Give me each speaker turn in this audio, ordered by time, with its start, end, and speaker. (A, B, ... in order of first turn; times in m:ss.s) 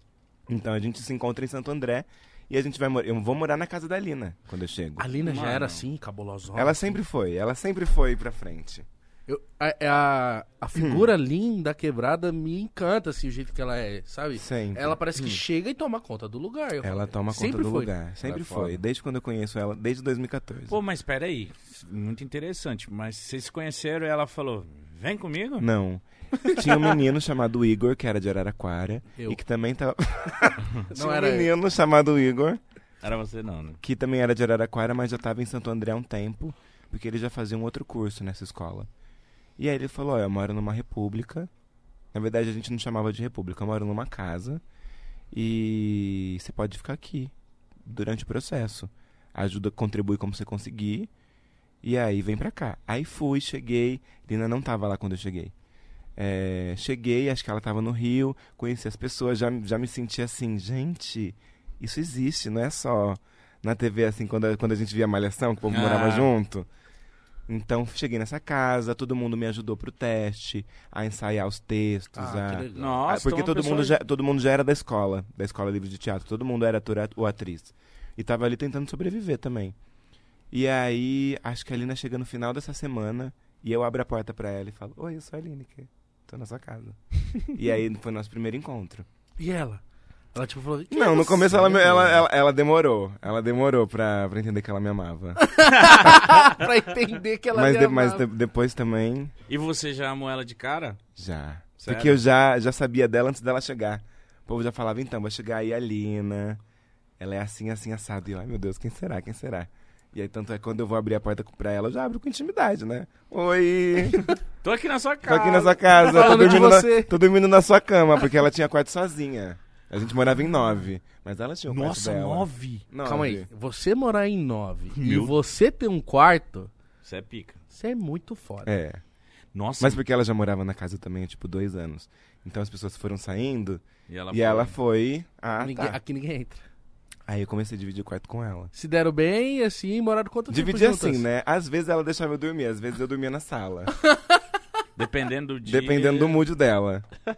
0:00.5-0:05.0 A
0:05.0-0:07.0 B
0:05.2-0:05.8 C
0:06.5-0:08.8 A
0:09.3-0:17.9 B
0:10.8-0:11.1 A
0:14.4-0:15.4 A
0:16.8-0:20.8 A
0:18.2-0:18.8 C
0:20.7-0:25.7 C
0:25.6-0:32.6 A
0:30.9-0:31.5 B
0:33.0-0:33.8 C
0:33.8-0:38.9 A
0:39.6-0:41.5 A
0:42.1-0:44.6 A
0:45.3-0:51.1 A
0:51.8-0:55.5 A
0:56.2-1:06.7 A
1:05.7-1:06.3 C
1:07.5-1:19.8 A
1:12.1-1:13.0 B
1:12.7-1:14.0 C
1:20.5-1:29.1 A
1:29.4-1:32.2 B
1:30.9-1:35.4 A
1:35.4-1:38.2 B
1:35.8-1:36.1 C
1:37.5-1:39.3 A
1:39.5-1:41.0 C
1:41.2-1:46.6 A
1:41.8-1:42.2 C
1:47.2-1:54.3 A
1:54.6-1:56.6 C
1:55.2-2:03.5 A
1:56.0-1:57.1 B
2:01.7-2:02.8 C
2:03.0-2:06.7 B
2:04.9-2:05.3 C
2:07.0-2:07.6 C
2:07.7-2:08.7 B
2:08.6-2:09.0 A
2:09.5-2:10.0 C
2:09.8-2:16.0 A
2:14.1-2:14.8 C
2:15.6-2:16.6 B
2:17.3-2:18.7 A
2:18.7-2:21.2 B
2:20.5-2:23.9 A
2:24.0-2:24.4 B
2:25.0-2:26.5 C
2:25.6-2:27.1 A